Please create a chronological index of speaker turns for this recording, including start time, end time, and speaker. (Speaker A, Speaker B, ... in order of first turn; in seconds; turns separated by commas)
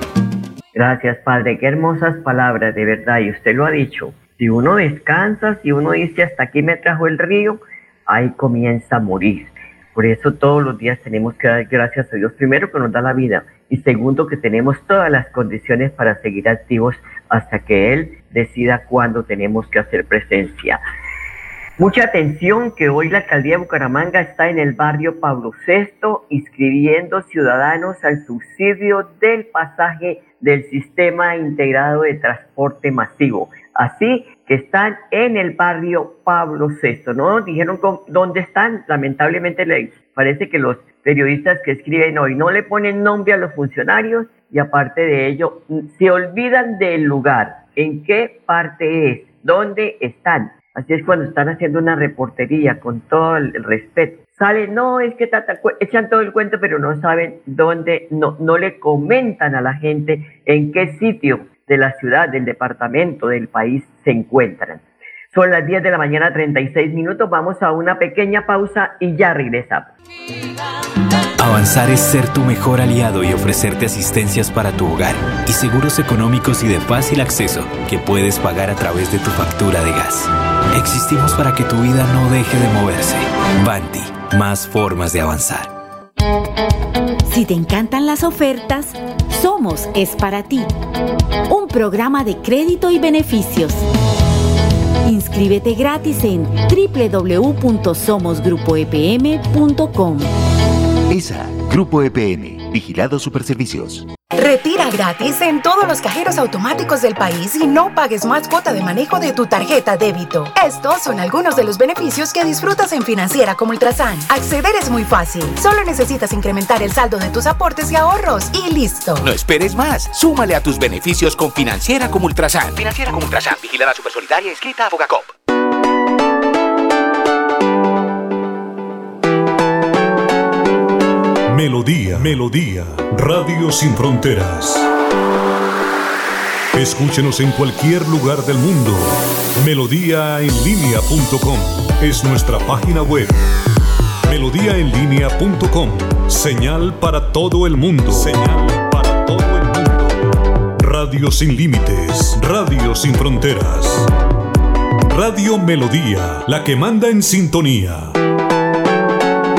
Speaker A: 0.7-20.8, Speaker A: 21.8-69.9, Speaker B: 71.4-85.7, Speaker C: 87.2-90.7, Speaker C: 91.5-93.8, Speaker C: 95.0-100.3, Speaker D: 101.1-104.1, Speaker E: 104.4-119.2, Speaker F: 119.2-125.3, Speaker G: 131.5-134.8, Speaker G: 136.7-143.4, Speaker G: 144.2-150.2, Speaker G: 150.8-154.1, Speaker G: 155.1-158.2